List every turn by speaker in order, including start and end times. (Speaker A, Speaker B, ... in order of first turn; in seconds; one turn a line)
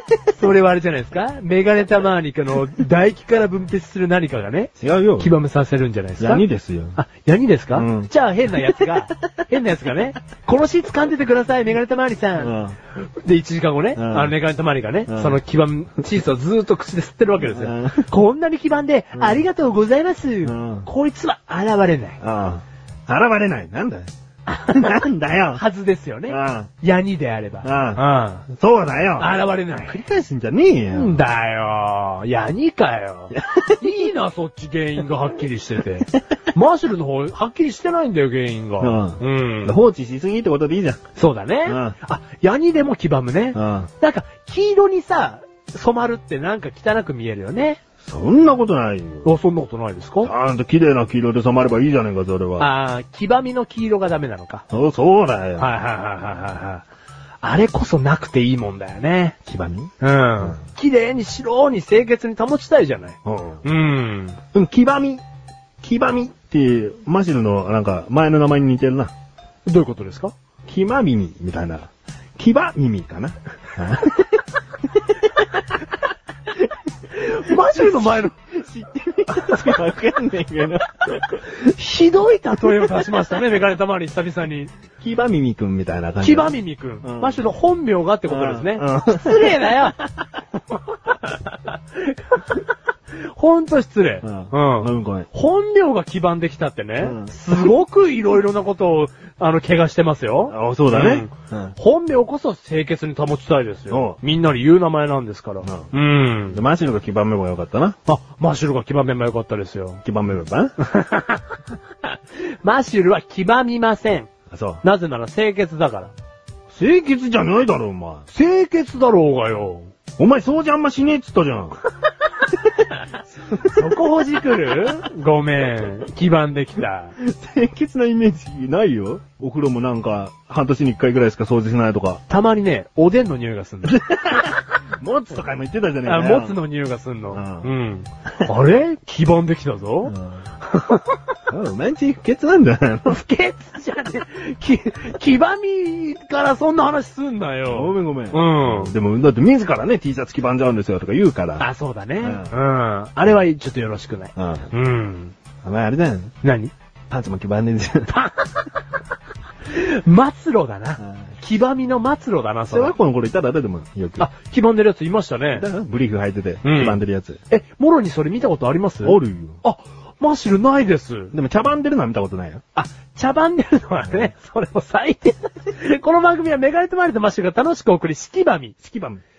Speaker A: 0.3-6.4
Speaker B: 4.8-5.3
Speaker B: 6.2-7.0
Speaker A: 7.0-22.2
Speaker B: 7.7-8.1
Speaker B: 12.4-12.8
Speaker B: 13.9-14.3
Speaker B: 15.1-15.4
Speaker B: 17.4-18.1
Speaker B: 20.4-20.9
Speaker B: 22.2-24.1
Speaker A: 24.5-24.9
Speaker B: 24.6-25.6
Speaker A: 25.5-28.4
Speaker B: 26.3-26.7
Speaker B: 27.6-31.2
Speaker A: 29.2-30.0
Speaker A: 30.9-39.8
Speaker B: 33.3-33.8
Speaker B: 38.8-41.0
Speaker A: 41.1-47.8
Speaker B: 41.6-42.0
Speaker B: 43.5-43.9
Speaker B: 48.0-49.3
Speaker A: 49.2-50.3
Speaker B: 50.2-52.7
Speaker A: 52.6-54.6
Speaker B: 54.7-55.7
Speaker A: 55.6-56.8
Speaker A: 57.4-59.4
Speaker B: 59.5-59.9
Speaker A: 60.0-64.4
Speaker B: 63.2-63.6
Speaker B: 64.5-65.2
Speaker B: 65.8-69.1
Speaker A: 69.7-70.3
Speaker B: 70.7-74.4
Speaker A: 77.1-78.3
Speaker B: 77.5-81.4
Speaker A: 81.5-84.7
Speaker B: 85.0-87.4
Speaker A: 86.2-90.0
Speaker B: 88.3-89.9
Speaker A: 91.1-92.6
Speaker A: 93.1-106.6
Speaker B: 94.2-95.3
Speaker B: 97.0-97.7
Speaker B: 100.5-101.7
Speaker B: 103.9-104.2
Speaker B: 105.6-105.9
Speaker B: 106.5-108.0
Speaker A: 108.0-110.0
Speaker B: 110.0-110.7
Speaker A: 110.8-111.6
Speaker A: 112.6-114.3
Speaker B: 114.5-114.8
Speaker A: 114.8-116.1
Speaker B: 116.7-118.2
Speaker A: 118.3-119.9
Speaker B: 120.2-121.8
Speaker B: 123.4-123.8
Speaker A: 123.5-127.1
Speaker B: 127.2-132.2
Speaker A: 132.3-134.0
Speaker B: 133.8-136.6
Speaker A: 136.0-141.2
Speaker B: 137.3-137.7
Speaker B: 140.1-140.4
Speaker B: 141.5-143.2
Speaker A: 143.1-148.9
Speaker B: 147.7-151.7
Speaker A: 151.6-155.3
Speaker B: 152.2-152.5
Speaker B: 154.3-154.7
Speaker B: 155.6-156.3
Speaker A: 156.4-156.7
Speaker B: 157.1-158.1
Speaker A: 158.1-158.7
Speaker A: 159.7-162.9
Speaker B: 162.7-164.3
Speaker A: 164.2-165.7
Speaker B: 165.5-167.4
Speaker A: 166.6-167.0
Speaker A: 167.5-171.3
Speaker B: 169.0-169.6
Speaker B: 171.3-172.6
Speaker A: 172.7-178.7
Speaker B: 178.8-179.2